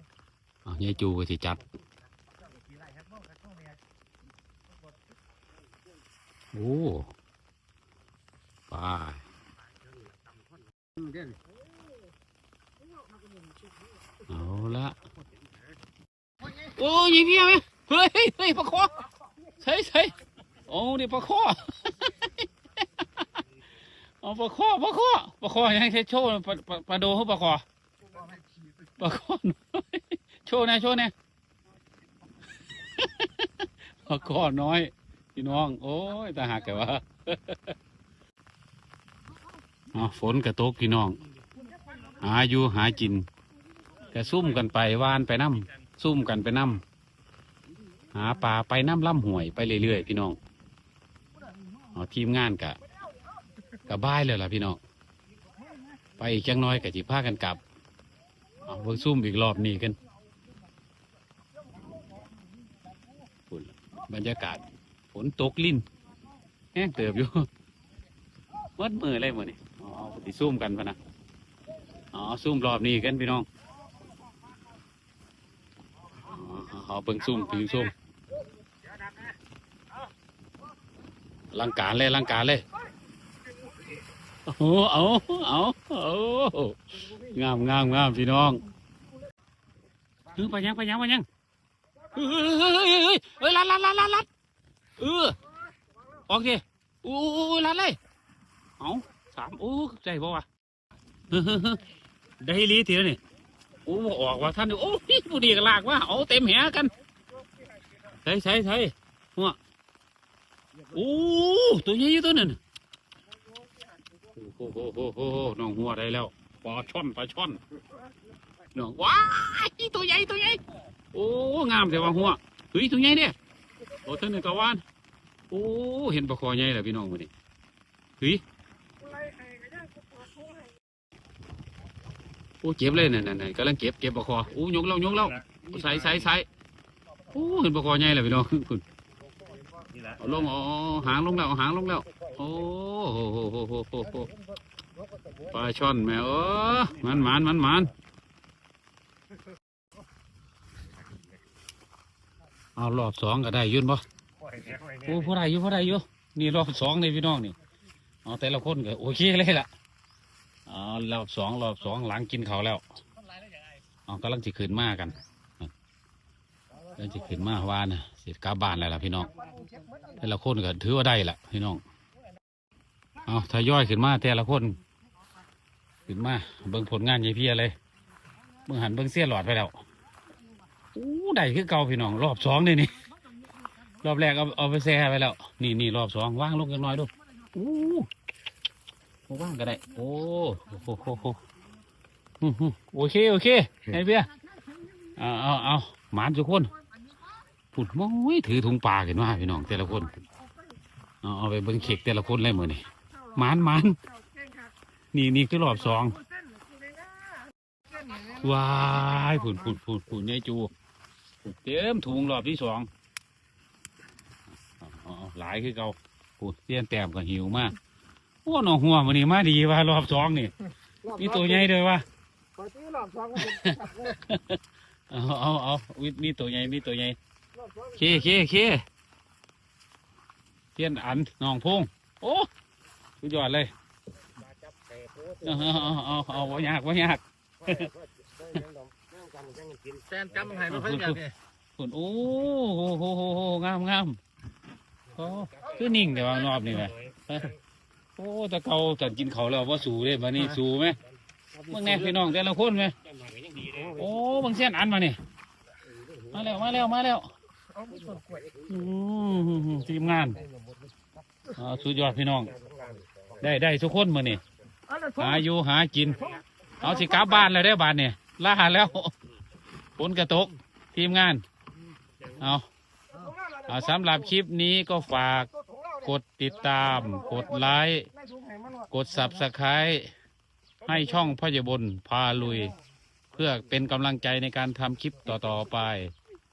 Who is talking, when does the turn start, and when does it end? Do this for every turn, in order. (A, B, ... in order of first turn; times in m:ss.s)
0:00.6-0:01.6 A
0:03.0-0:03.3 B
0:06.5-0:07.1 A
0:08.7-0:09.2 A
0:14.3-0:15.0 A
0:16.6-0:19.0 A
0:19.6-0:20.2 A
0:20.7-0:22.4 A
0:23.0-0:23.2 A
0:24.2-0:27.6 A
0:29.0-0:31.1 A
0:32.8-0:37.8 A
0:39.9-0:41.2 A
0:41.6-0:42.2 C
0:42.2-0:43.3 A
0:44.1-0:46.8 A
0:48.1-0:50.4 A
0:51.9-0:52.8 A
0:53.9-0:54.8 A
0:56.2-0:57.6 A
0:58.6-1:00.0 A
1:01.7-1:02.3 C
1:03.5-1:05.8 A
1:06.7-1:07.5 A
1:08.8-1:11.0 A
1:12.1-1:13.5 A
1:16.2-1:17.9 A
1:21.5-1:22.6 A
1:24.4-1:28.6 A
1:30.3-1:31.3 A
1:32.1-1:34.3 A
1:35.0-1:35.4 A
1:36.3-1:38.0 A
1:38.8-1:40.5 A
1:41.3-1:41.8 A
1:42.4-1:43.2 A
1:43.8-1:46.9 A
1:48.2-1:49.6 A
1:50.9-1:52.6 A
1:53.5-1:54.2 C
1:54.4-1:57.6 A
1:58.7-2:00.6 A
2:01.1-2:03.3 A
2:03.9-2:04.2 C
2:04.0-2:04.8 A
2:05.5-2:07.3 A
2:09.0-2:10.7 C
2:12.6-2:16.5 A
2:15.4-2:16.2 B
2:17.3-2:18.8 A
2:19.8-2:20.4 B
2:20.2-2:24.3 A
2:25.5-2:27.9 A
2:32.8-2:34.0 A
2:34.4-2:35.3 B
2:35.0-2:37.6 A
2:38.2-2:39.7 A
2:40.7-2:42.8 A
2:44.0-2:45.7 A
2:47.0-2:49.3 A
2:49.2-2:50.2 C
2:50.2-2:51.8 A
2:53.2-2:54.8 A
2:56.1-2:57.8 A
2:58.6-2:59.8 A
3:00.9-3:03.0 A
3:04.0-3:08.1 A
3:09.3-3:11.4 A
3:12.4-3:14.3 A
3:14.4-3:15.2 C
3:15.2-3:16.7 A
3:16.9-3:17.2 C
3:17.7-3:20.1 A
3:19.7-3:20.5 C
3:21.2-3:24.0 A
3:23.1-3:24.7 C
3:25.1-3:26.2 A
3:26.1-3:28.4 C
3:28.3-3:30.7 A
3:31.4-3:32.9 A
3:34.7-3:37.7 A
3:38.4-3:40.5 A
3:41.0-3:41.7 C
3:41.2-3:42.0 A
3:42.6-3:44.2 C
3:43.4-3:47.2 A
3:47.5-3:48.3 C
3:48.0-3:48.8 A
3:50.7-3:52.5 A
3:53.2-3:53.7 A
3:54.3-3:56.7 B
3:55.4-3:57.9 A
3:57.6-4:01.2 B
4:00.7-4:01.2 A
4:01.8-4:04.2 A
4:05.1-4:07.5 B
4:05.1-4:07.5 A
4:08.2-4:11.0 A
4:11.6-4:12.3 B
4:11.7-4:13.0 A
4:13.0-4:14.1 B
4:13.9-4:15.2 A
4:15.9-4:16.6 B
4:16.3-4:17.3 A
4:17.7-4:18.5 C
4:18.0-4:18.8 B
4:18.7-4:20.4 A
4:19.5-4:20.9 B
4:21.6-4:22.5 A
4:22.0-4:23.5 B
4:23.4-4:24.4 A
4:24.9-4:25.4 C
4:25.2-4:26.2 A
4:26.2-4:27.5 C
4:26.8-4:29.1 A
4:30.0-4:31.4 A
4:32.2-4:32.4 B
4:32.4-4:32.7 A
4:33.1-4:34.3 C
4:33.6-4:35.5 A
4:35.5-4:38.9 C
4:36.0-4:38.1 A
4:38.9-4:40.1 A
4:40.8-4:42.7 A
4:43.3-4:46.1 A